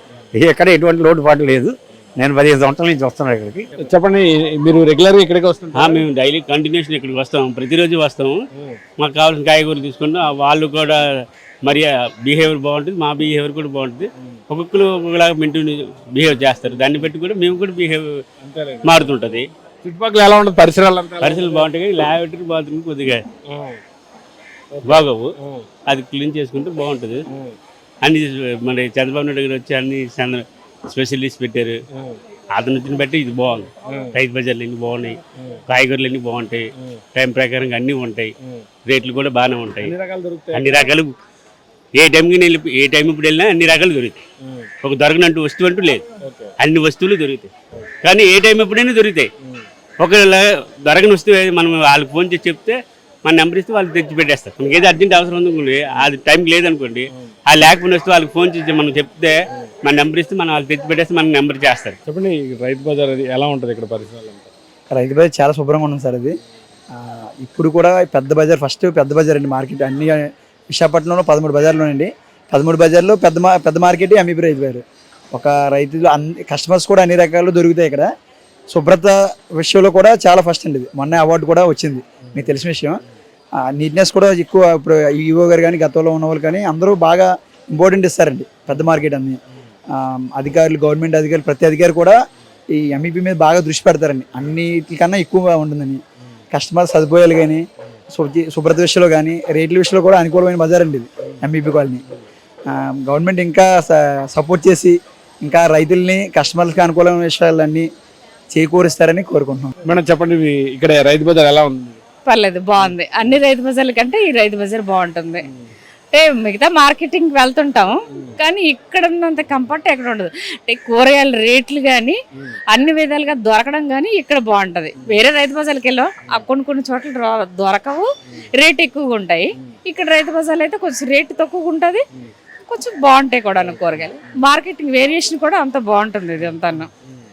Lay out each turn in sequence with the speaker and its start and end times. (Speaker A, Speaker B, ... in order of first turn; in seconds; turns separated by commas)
Speaker A: 0.4-3.7, Speaker B: 3.8-6.0, Speaker C: 5.7-8.4, Speaker C: 9.0-11.0, Speaker C: 11.6-18.2, Speaker B: 18.4-19.1, Speaker C: 18.8-19.5, Speaker B: 19.8-21.6, Speaker C: 21.2-23.2, Speaker B: 23.5-23.8, Speaker B: 24.7-25.6, Speaker C: 24.8-25.3, Speaker C: 25.9-27.2, Speaker C: 28.0-31.8, Speaker C: 32.5-38.3, Speaker C: 38.8-39.9, Speaker B: 39.8-40.9, Speaker C: 40.5-41.1, Speaker C: 41.9-44.2, Speaker C: 44.8-46.0, Speaker B: 46.2-46.5, Speaker C: 46.6-47.5, Speaker C: 48.0-49.3, Speaker C: 50.0-62.0, Speaker B: 62.0-64.5, Speaker D: 64.9-66.4, Speaker D: 66.9-78.1, Speaker D: 78.7-83.0, Speaker D: 83.7-89.4, Speaker D: 89.9-92.2, Speaker D: 92.7-96.0, Speaker D: 96.5-102.0, Speaker D: 102.7-107.9, Speaker D: 108.5-109.7, Speaker B: 109.8-112.0, Speaker E: 112.2-115.5, Speaker E: 116.1-122.2, Speaker E: 122.7-132.0, Speaker E: 132.7-136.9